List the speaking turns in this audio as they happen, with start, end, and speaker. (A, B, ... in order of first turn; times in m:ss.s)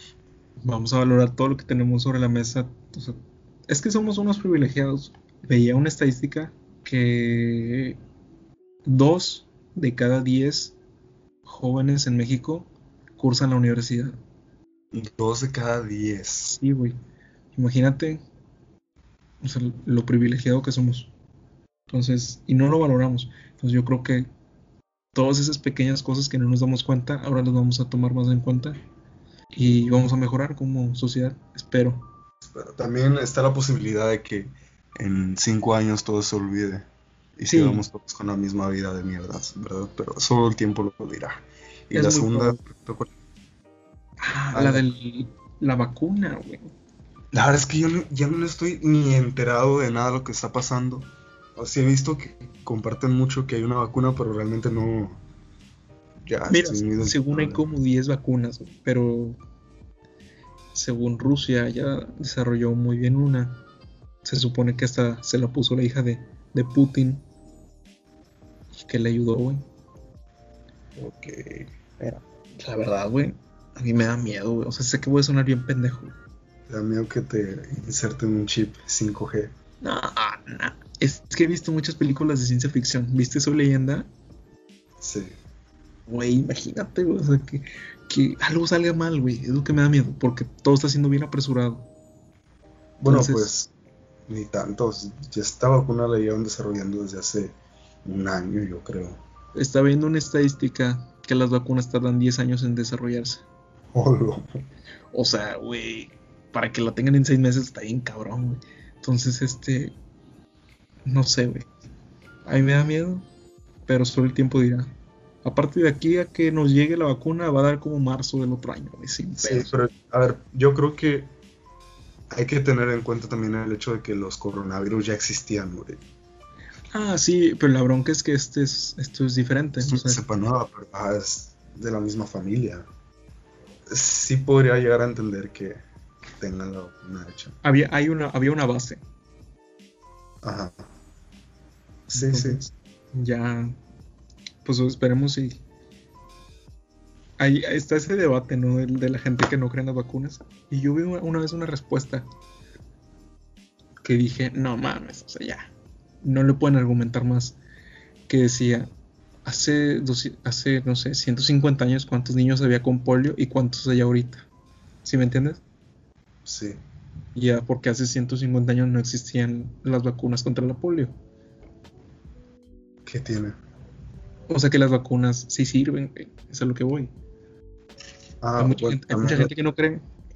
0:00.6-0:08.0 A
0:08.8-0:10.8 A
0:11.4-0:14.1 A
0:14.9-0:16.6 B
0:16.5-0:17.0 A
0:17.6-0:18.2 A
0:19.4-0:21.1 A
0:21.9-0:24.3 A
0:25.1-0:28.8 A
0:29.5-0:32.1 A
0:32.4-0:36.9 B
0:37.4-0:43.1 B
0:37.5-0:37.8 A
0:41.9-0:42.6 A
0:44.2-0:46.7 A
0:44.5-0:44.8 B
0:47.3-0:55.2 B
0:56.3-0:57.6 B
0:56.5-0:59.4 A
1:00.7-1:03.6 A
1:04.2-1:07.2 A
1:08.7-1:09.6 A
1:11.0-1:12.2 B
1:12.6-1:16.1 A
1:16.7-1:19.5 B
1:19.8-1:24.1 A
1:25.0-1:25.3 B
1:26.1-1:31.9 A
1:33.0-1:33.7 B
1:33.0-1:33.5 A
1:34.3-1:39.2 B
1:39.6-1:43.4 A
1:43.9-1:44.5 B
1:45.1-1:49.9 A
1:51.1-1:51.7 A
1:52.4-1:53.2 A
1:53.9-1:54.9 A
1:55.4-1:59.7 A
1:59.4-2:01.3 B
2:02.3-2:06.0 B
2:06.9-2:10.2 A
2:09.8-2:12.9 B
2:13.9-2:17.6 B
2:17.6-2:19.0 A
2:20.4-2:20.8 B
2:22.1-2:23.8 A
2:22.1-2:22.6 B
2:24.6-2:25.6 A
2:27.4-2:32.2 A
2:34.0-2:35.7 A
2:36.2-2:37.6 A
2:38.3-2:38.9 A
2:39.4-2:44.4 A
2:45.0-2:45.6 A
2:46.4-2:46.8 B
2:47.3-2:51.1 A
2:53.1-2:53.6 B
2:54.5-2:57.1 A
2:58.4-2:59.5 B
2:58.6-3:00.0 A